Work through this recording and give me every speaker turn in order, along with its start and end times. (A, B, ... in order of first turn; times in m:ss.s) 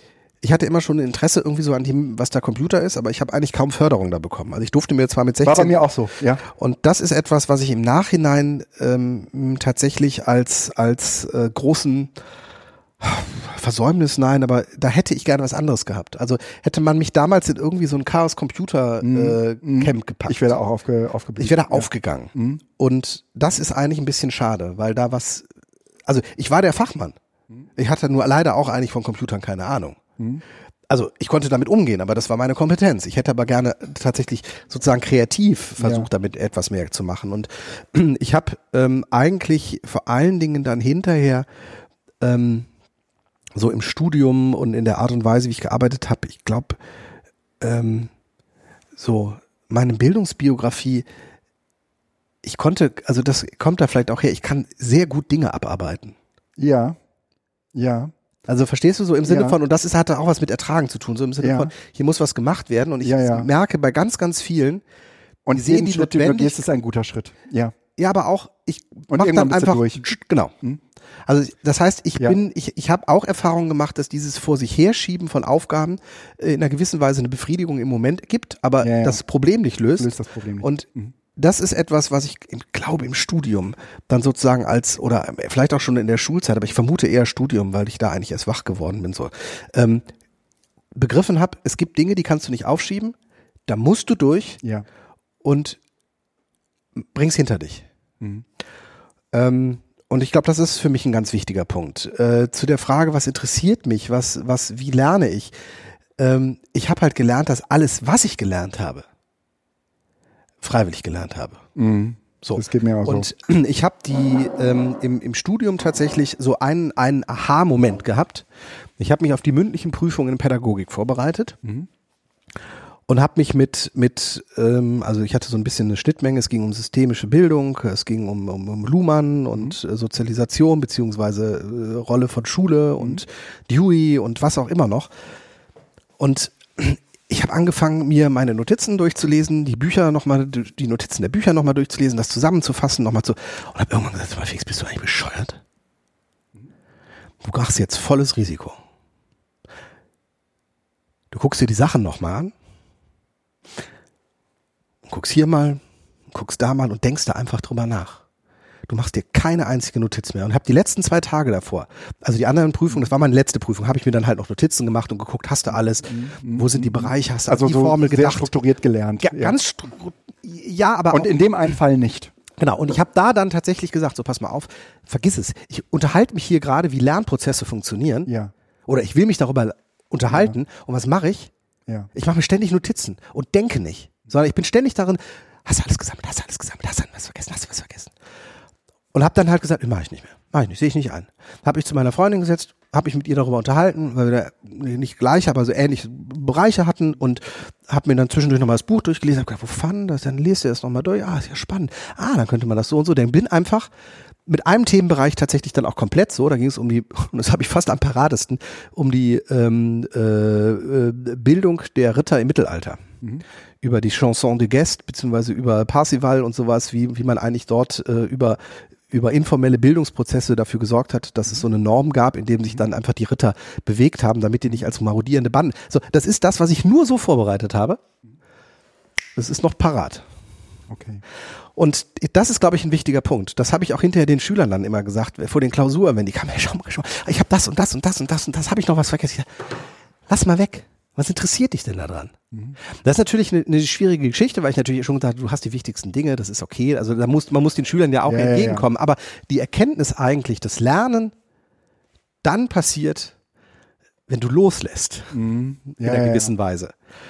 0:00.4-0:05.7 A
0:05.4-0:06.4 B
0:06.5-0:12.1 A
0:13.0-0:20.5 A
0:19.0-0:22.6 B
0:21.4-0:25.5 A
0:26.1-0:27.2 A
0:27.8-0:30.0 A
0:30.9-0:41.5 A
0:35.8-0:36.1 B
0:42.2-0:42.7 A
0:43.6-0:46.8 A
0:47.6-0:48.1 A
0:49.0-0:51.1 A
0:52.4-0:56.2 A
0:56.6-0:57.0 B
0:57.8-0:58.1 B
0:58.5-1:04.8 A
0:59.3-0:59.6 B
1:01.4-1:01.7 B
1:03.0-1:03.5 B
1:05.5-1:07.7 B
1:05.5-1:06.6 A
1:08.0-1:10.5 A
1:09.1-1:10.1 B
1:11.3-1:30.1 A
1:18.8-1:19.2 B
1:20.0-1:21.1 B
1:31.0-1:33.2 A
1:33.7-1:34.6 A
1:35.4-1:35.8 A
1:37.1-1:37.9 A
1:39.3-1:45.5 A
1:46.2-1:49.0 A
1:50.6-1:51.6 A
1:51.8-1:53.3 B
1:52.4-1:58.5 A
1:59.0-2:01.6 A
2:03.1-2:15.1 A
2:16.2-2:25.6 A
2:27.4-2:28.8 A
2:31.3-2:32.5 A
2:35.1-2:35.8 A
2:36.3-2:38.2 A
2:38.9-2:48.5 A
2:46.1-2:49.6 B
2:49.2-2:51.3 A
2:51.1-2:52.3 B
2:52.6-2:58.3 A
2:58.3-2:58.5 B
2:58.9-3:01.5 A
3:02.1-3:08.1 A
3:09.1-3:23.9 A
3:24.5-3:33.0 A
3:33.8-3:38.6 A
3:39.1-3:48.0 A
3:49.4-3:50.2 A
3:50.9-3:51.2 B
3:51.8-4:11.3 A
4:08.3-4:08.9 B
4:12.4-4:13.4 A
4:14.3-4:15.4 A
4:15.3-4:16.5 B
4:16.0-4:16.9 A